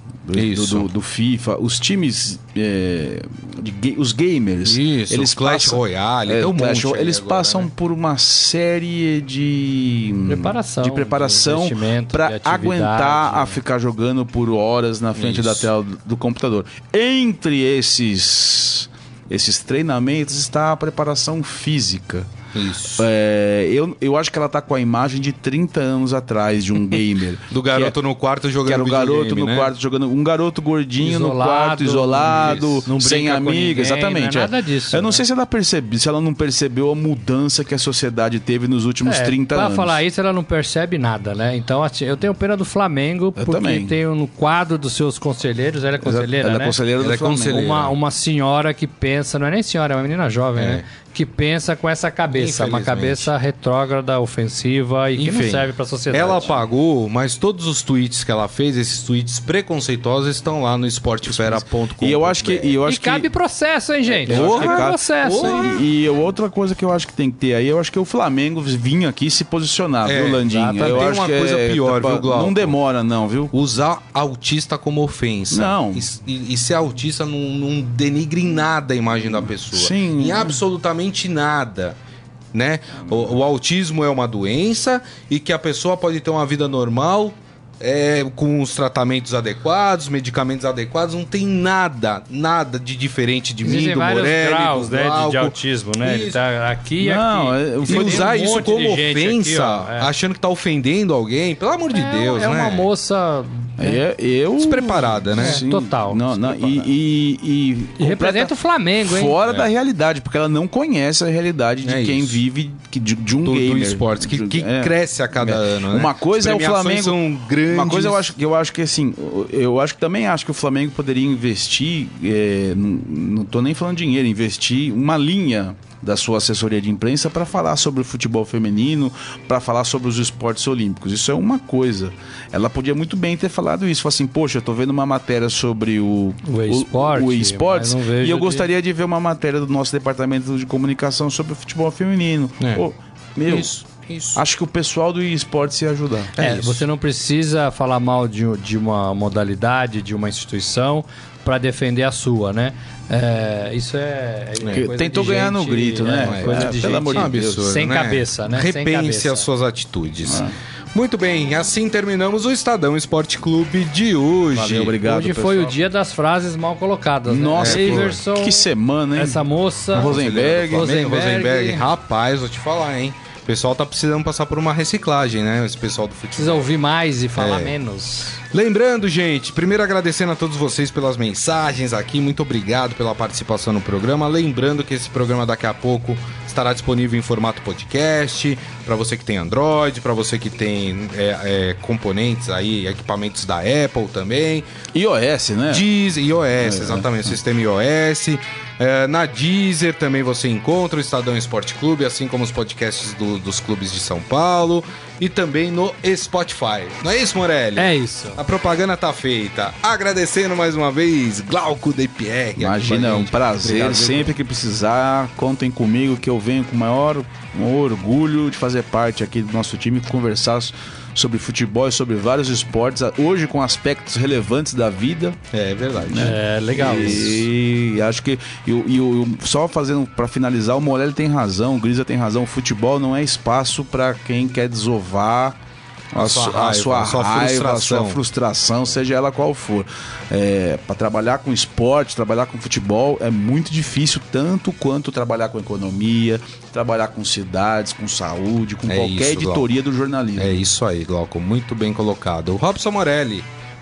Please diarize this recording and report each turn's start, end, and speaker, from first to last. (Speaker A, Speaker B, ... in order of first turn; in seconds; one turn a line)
Speaker A: 0.2-22.3
Speaker B: 0.3-0.9
Speaker B: 4.7-7.7
Speaker C: 10.3-13.6
Speaker B: 15.2-15.7
Speaker B: 22.6-23.0
Speaker A: 22.9-28.0
Speaker B: 27.5-29.7
Speaker A: 28.6-40.0
Speaker C: 31.0-35.2
Speaker B: 32.4-32.9
Speaker C: 39.0-46.8
Speaker A: 43.4-44.0
Speaker A: 46.0-47.8
Speaker B: 47.0-47.9
Speaker C: 47.5-56.5
Speaker B: 50.6-50.8
Speaker B: 52.4-53.3
Speaker B: 55.2-62.8
Speaker A: 61.3-63.3
Speaker C: 62.9-65.8
Speaker A: 64.2-73.5
Speaker B: 64.2-65.8
Speaker B: 70.0-72.8
Speaker C: 70.4-71.1
Speaker B: 73.5-82.0
Speaker A: 75.5-76.1
Speaker A: 79.7-80.6
Speaker B: 82.5-96.4
Speaker C: 93.6-100.1
Speaker A: 97.0-98.3
Speaker B: 97.8-102.9
Speaker C: 101.9-104.0
Speaker A: 103.8-143.7
Speaker B: 104.6-105.6
Speaker C: 105.4-106.9
Speaker C: 108.0-109.4
Speaker B: 111.8-112.4
Speaker B: 113.4-118.3
Speaker C: 136.4-138.7
Speaker B: 143.5-144.4
Speaker A: 144.3-146.3
Speaker B: 146.4-146.8
Speaker C: 146.4-159.5
Speaker A: 154.7-157.7
Speaker B: 156.2-165.0
Speaker A: 160.3-160.5
Speaker A: 164.5-165.8
Speaker C: 165.0-170.2
Speaker A: 167.3-170.9
Speaker B: 167.6-168.2
Speaker B: 169.9-176.7
Speaker C: 170.7-171.8
Speaker C: 176.4-178.4
Speaker B: 177.4-177.7
Speaker B: 178.5-194.7
Speaker A: 194.9-195.9
Speaker B: 195.7-214.3
Speaker A: 196.6-197.3
Speaker C: 207.8-208.4
Speaker A: 212.6-225.4
Speaker B: 225.5-226.4
Speaker A: 226.0-235.6
Speaker C: 226.2-227.4
Speaker A: 236.1-250.6
Speaker B: 236.2-238.2
Speaker B: 248.9-249.7
Speaker B: 250.4-253.5